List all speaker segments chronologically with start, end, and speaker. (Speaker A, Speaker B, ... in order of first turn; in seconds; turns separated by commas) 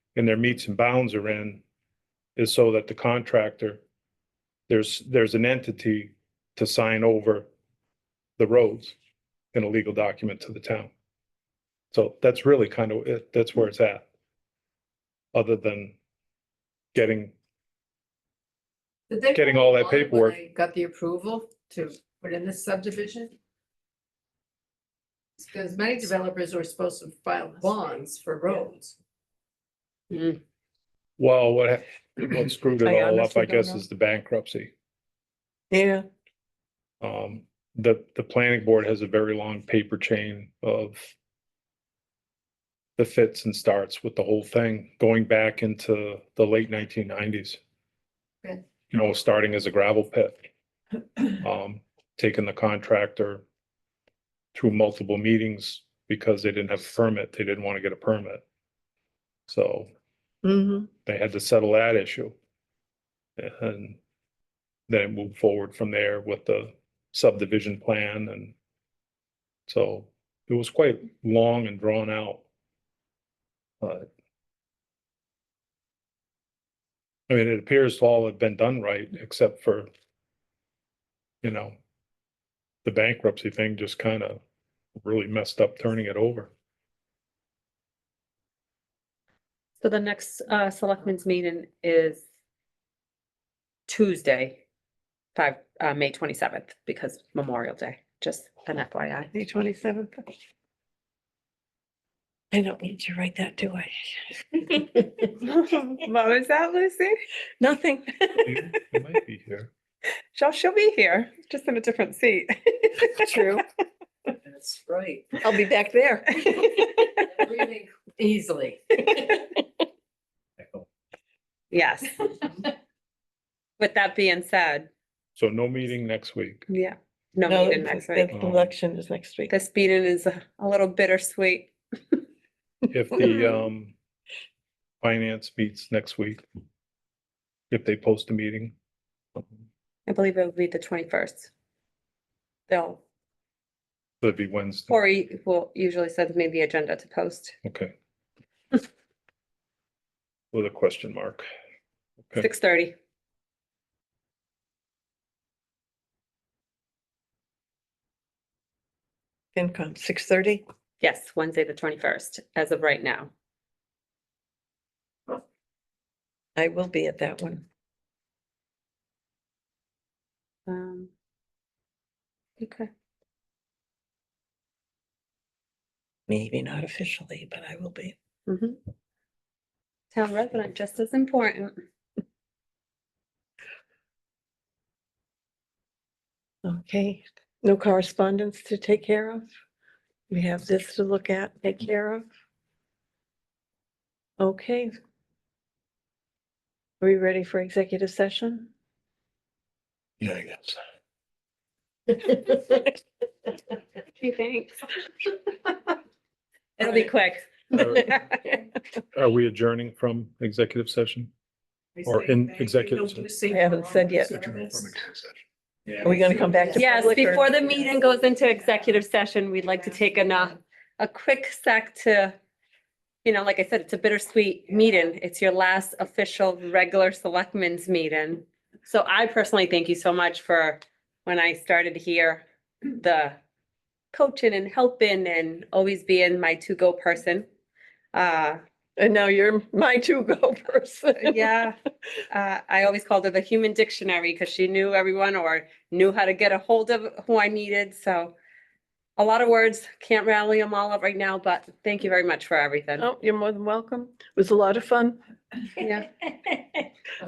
Speaker A: 0.1-1.6, Speaker A: 2.4-3.8, Speaker A: 4.7-7.5, Speaker A: 8.4-8.9, Speaker A: 9.5-10.9, Speaker A: 11.9-14.1, Speaker A: 15.3-15.9, Speaker A: 16.9-17.3, Speaker B: 19.1-23.4, Speaker A: 19.3-20.3, Speaker B: 25.4-28.9, Speaker C: 30.1-30.4, Speaker A: 31.2-34.7, Speaker D: 32.8-33.8, Speaker D: 35.7-36.0, Speaker A: 37.0-41.1, Speaker A: 43.0-47.6, Speaker A: 48.9-50.5, Speaker A: 51.3-53.4, Speaker A: 54.5-58.4, Speaker A: 59.5-59.9, Speaker D: 60.4-60.9, Speaker A: 61.0-62.3, Speaker A: 63.4-64.0, Speaker A: 64.9-68.5, Speaker A: 69.7-72.4, Speaker A: 73.8-74.1, Speaker A: 77.3-79.9, Speaker A: 81.4-81.8, Speaker A: 82.8-84.4, Speaker A: 85.0-86.5, Speaker C: 89.8-92.2, Speaker C: 93.9-94.6, Speaker C: 95.3-99.3, Speaker D: 99.3-100.2, Speaker D: 102.5-104.9, Speaker C: 105.2-107.2, Speaker D: 107.6-108.7, Speaker A: 108.4-109.7, Speaker C: 110.3-113.6, Speaker D: 113.1-113.6, Speaker B: 114.4-115.4, Speaker D: 115.4-117.1, Speaker B: 117.2-119.4, Speaker C: 121.7-122.3, Speaker C: 123.8-124.9, Speaker A: 125.4-126.7, Speaker C: 126.7-128.3, Speaker D: 127.5-129.5, Speaker A: 128.3-128.7, Speaker C: 129.5-132.2, Speaker A: 132.9-134.0, Speaker A: 135.0-136.4, Speaker A: 137.7-138.8, Speaker C: 140.1-141.5, Speaker C: 142.7-143.0, Speaker A: 144.2-144.9, Speaker C: 144.9-147.5, Speaker A: 147.6-147.9, Speaker A: 150.5-151.5, Speaker C: 152.4-152.9, Speaker D: 159.5-160.6, Speaker C: 161.0-163.3, Speaker D: 166.6-167.6, Speaker C: 170.7-171.1, Speaker C: 172.6-172.9, Speaker D: 176.3-178.2, Speaker C: 178.5-178.8, Speaker C: 180.1-181.8, Speaker D: 186.7-189.5, Speaker D: 190.3-192.3, Speaker D: 194.4-194.9, Speaker D: 197.0-198.7, Speaker A: 200.2-200.8, Speaker C: 204.2-204.9, Speaker C: 206.8-208.3, Speaker A: 207.7-208.2, Speaker A: 209.1-211.3, Speaker A: 212.0-213.3, Speaker B: 213.3-213.6, Speaker D: 213.5-214.6, Speaker A: 214.7-215.2, Speaker D: 216.0-217.5, Speaker C: 216.7-222.3, Speaker C: 223.2-233.4, Speaker C: 234.1-237.5, Speaker C: 238.1-238.6, Speaker D: 239.0-241.4, Speaker C: 241.2-241.8, Speaker C: 242.3-248.3, Speaker C: 249.2-253.1, Speaker D: 253.0-255.2, Speaker C: 255.8-256.2